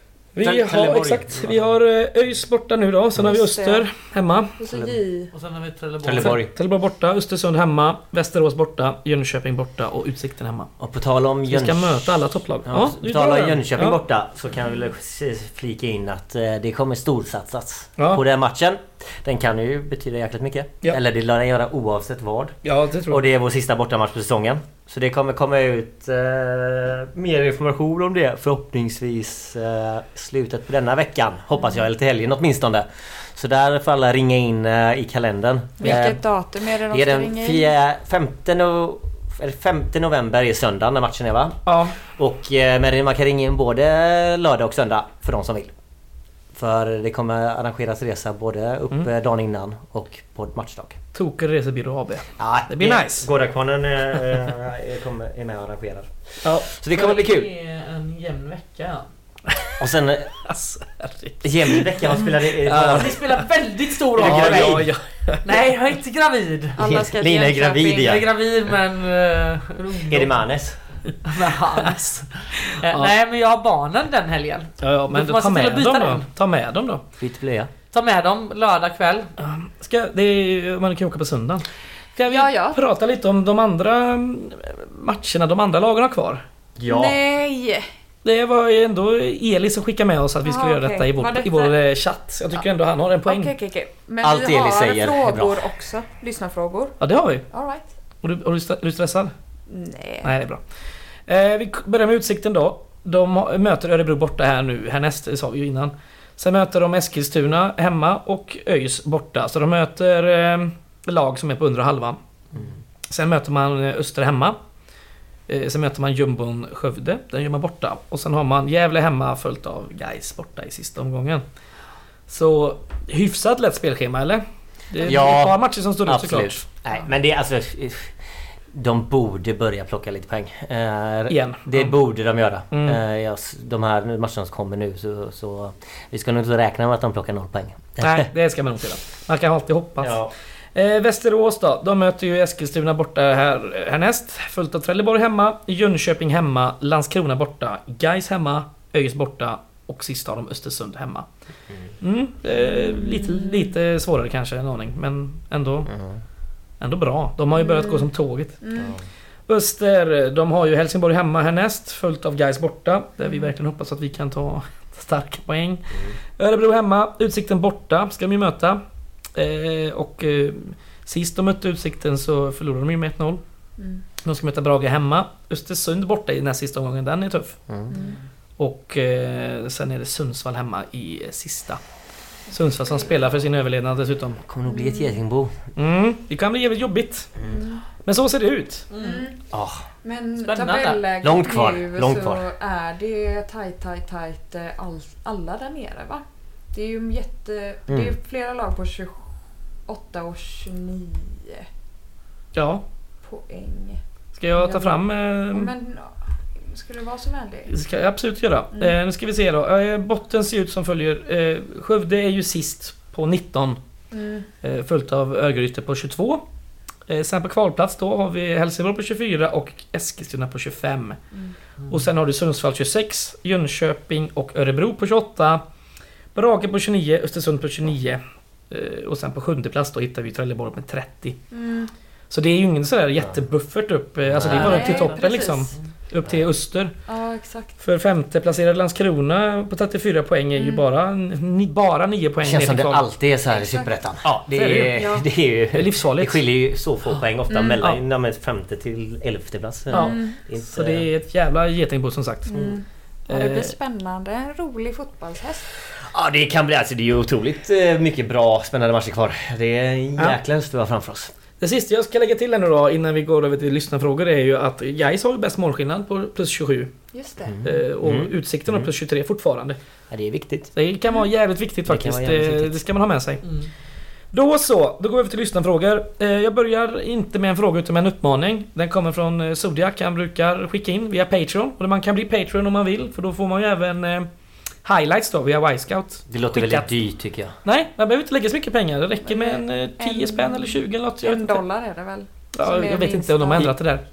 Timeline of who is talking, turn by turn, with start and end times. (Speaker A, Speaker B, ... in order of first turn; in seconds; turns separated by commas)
Speaker A: 0.3-4.5, Speaker B: 0.4-1.8, Speaker C: 3.2-3.9, Speaker C: 4.6-5.3, Speaker D: 5.3-6.4, Speaker B: 6.0-6.5, Speaker A: 6.2-10.7, Speaker B: 10.8-36.2, Speaker A: 11.5-14.0, Speaker A: 18.0-18.2, Speaker A: 22.6-23.2, Speaker C: 35.8-37.7, Speaker A: 35.8-36.1, Speaker B: 36.9-45.7, Speaker A: 41.7-42.0, Speaker B: 46.5-51.0, Speaker A: 51.1-53.3, Speaker B: 52.4-57.5, Speaker A: 56.4-56.7, Speaker D: 56.9-59.0, Speaker A: 59.5-59.7, Speaker B: 59.8-60.3, Speaker A: 60.4-62.1, Speaker B: 61.4-63.2, Speaker A: 62.6-63.3, Speaker D: 62.7-64.8, Speaker B: 64.2-64.9, Speaker A: 64.2-65.5, Speaker D: 65.4-66.8, Speaker C: 66.8-68.2, Speaker B: 66.8-68.3, Speaker D: 67.9-70.4, Speaker B: 70.1-70.8, Speaker D: 71.2-76.3, Speaker A: 72.8-73.1, Speaker A: 74.8-77.0, Speaker B: 77.2-77.7, Speaker D: 77.9-79.3, Speaker A: 79.4-81.7, Speaker A: 82.2-86.4, Speaker C: 82.3-82.8, Speaker B: 86.8-87.2, Speaker C: 86.9-87.9, Speaker A: 88.2-93.5, Speaker C: 90.4-91.8, Speaker C: 93.3-97.0, Speaker B: 94.2-95.7, Speaker A: 97.0-97.5, Speaker C: 97.5-97.9, Speaker A: 98.2-99.3, Speaker C: 99.7-100.3, Speaker A: 100.2-100.6, Speaker A: 101.3-112.2, Speaker A: 113.1-114.6, Speaker A: 115.5-121.4, Speaker A: 122.3-126.6, Speaker B: 125.0-128.1, Speaker B: 128.7-138.3, Speaker A: 131.3-131.9, Speaker A: 132.7-133.0, Speaker A: 138.0-140.2, Speaker B: 140.0-140.3, Speaker A: 140.8-151.3, Speaker A: 152.0-155.9, Speaker C: 152.9-153.6, Speaker B: 155.9-156.2, Speaker A: 156.8-158.6, Speaker C: 157.6-158.1, Speaker C: 158.6-159.0, Speaker B: 158.8-159.0, Speaker A: 159.5-168.8, Speaker A: 169.3-173.4, Speaker C: 173.8-174.0, Speaker A: 174.2-177.6, Speaker B: 177.7-177.9, Speaker C: 177.9-178.2, Speaker A: 178.6-181.8, Speaker A: 182.5-184.4, Speaker B: 184.4-185.5, Speaker C: 184.7-185.2, Speaker A: 185.8-187.3, Speaker C: 187.5-187.8, Speaker A: 188.0-188.9, Speaker D: 188.9-189.3, Speaker C: 189.0-189.4, Speaker B: 189.5-189.8, Speaker C: 190.0-199.3, Speaker D: 190.4-191.0, Speaker B: 191.2-192.4, Speaker B: 197.9-198.2, Speaker C: 199.9-201.7, Speaker A: 202.5-202.8, Speaker C: 203.2-204.0, Speaker A: 204.3-205.7, Speaker C: 204.5-207.7, Speaker A: 207.7-213.8, Speaker C: 214.1-214.5, Speaker A: 214.6-216.4, Speaker A: 217.1-221.2, Speaker A: 221.9-225.6, Speaker A: 226.3-231.4, Speaker C: 231.5-231.9, Speaker A: 232.3-236.9, Speaker B: 234.2-234.9, Speaker C: 234.4-235.7, Speaker D: 234.8-235.1, Speaker C: 237.1-237.8, Speaker A: 237.8-243.0, Speaker C: 240.6-240.8, Speaker B: 242.4-251.1, Speaker C: 243.5-243.9, Speaker A: 244.5-245.1, Speaker C: 244.9-245.2, Speaker A: 245.7-246.4, Speaker C: 247.5-247.8, Speaker C: 249.9-250.4, Speaker A: 249.9-252.7, Speaker C: 252.5-255.7, Speaker A: 253.3-253.7, Speaker B: 256.1-261.3, Speaker A: 261.6-266.9, Speaker C: 267.1-267.6, Speaker B: 267.5-268.9, Speaker A: 267.6-269.8, Speaker B: 270.1-270.7, Speaker A: 270.8-273.4, Speaker B: 271.9-272.8, Speaker A: 274.3-284.3, Speaker A: 284.8-286.9, Speaker B: 286.3-287.6, Speaker A: 287.6-291.6, Speaker C: 289.3-293.7, Speaker A: 292.6-294.0